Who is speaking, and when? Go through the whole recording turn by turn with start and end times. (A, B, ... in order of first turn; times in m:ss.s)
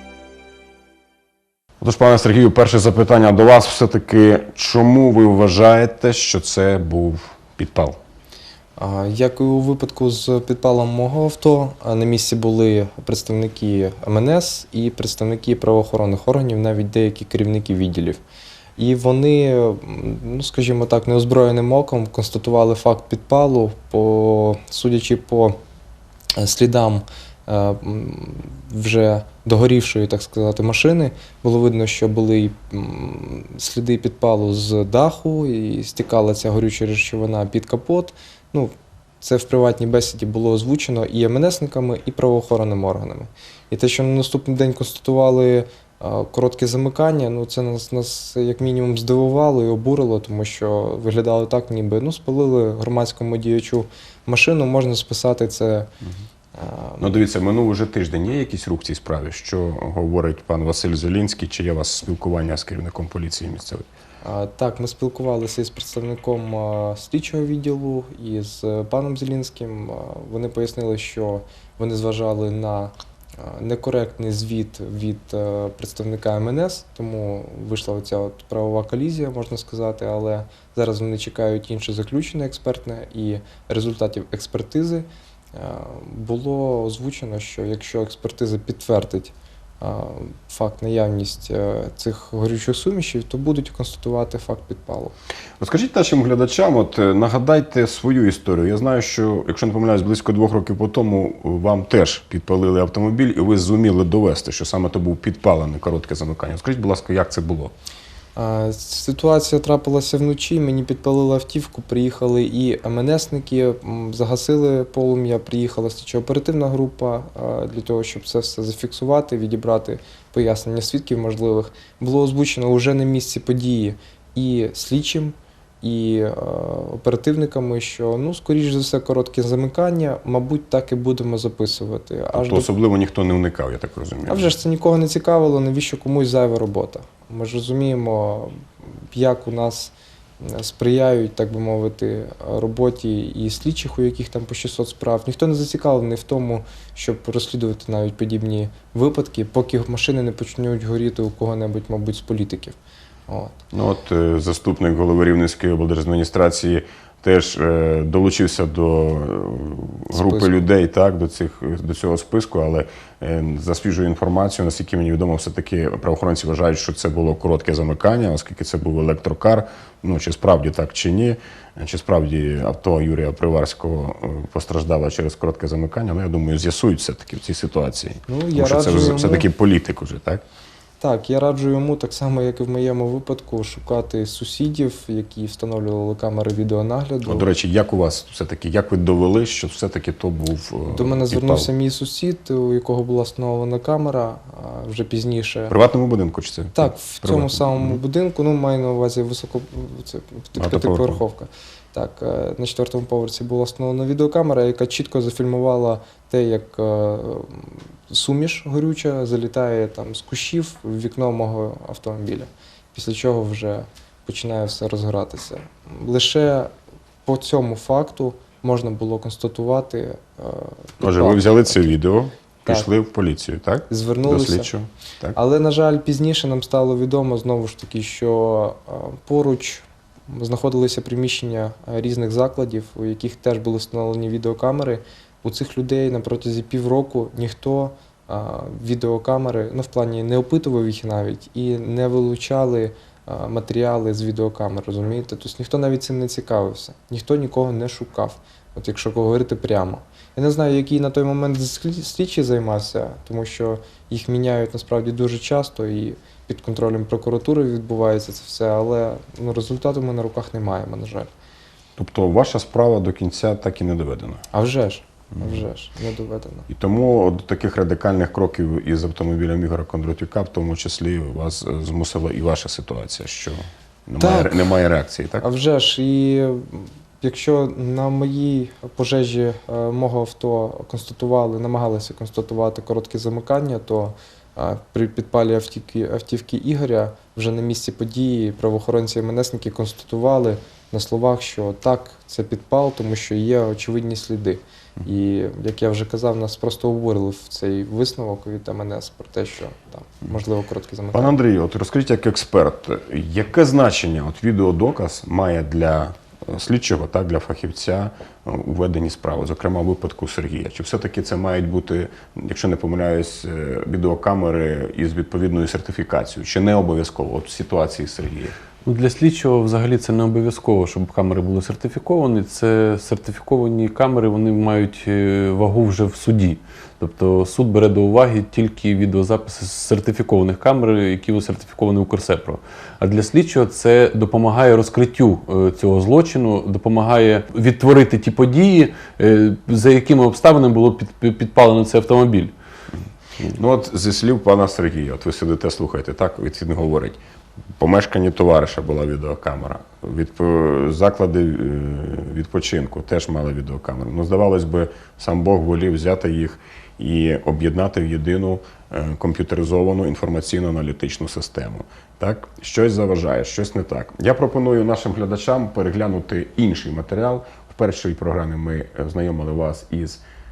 0:01.8-0:08.0 A
0:08.8-0:18.2 B
0:18.8-0:25.6 B
0:26.4-0:55.9 B
0:56.5-0:57.2 B
0:57.0-1:03.9 A
1:04.2-1:35.1 B
1:35.6-1:47.7 A
1:48.4-2:12.7 B
2:12.3-2:14.5 A
2:14.3-2:18.6 B
2:19.1-2:32.8 B
2:33.3-2:33.6 B
2:33.7-3:00.4 A
2:40.1-2:40.5 B
2:58.3-2:59.5 B
3:01.0-3:07.4 B
3:07.2-3:11.7 A
3:10.9-3:15.7 B
3:15.7-3:18.0 A
3:16.7-3:36.7 B
3:20.6-3:21.2 A
3:37.2-3:41.9 B
3:41.0-3:45.4 A
3:43.9-3:44.7 B
3:45.4-4:21.3 B
4:22.0-4:24.4 A
4:24.5-4:26.7 B
4:26.7-4:35.4 A
4:34.2-4:34.7 B
4:35.4-5:01.3 B
5:01.1-5:18.5 A
5:18.8-5:42.5 C
5:43.5-5:47.2 A
5:47.8-6:10.2 A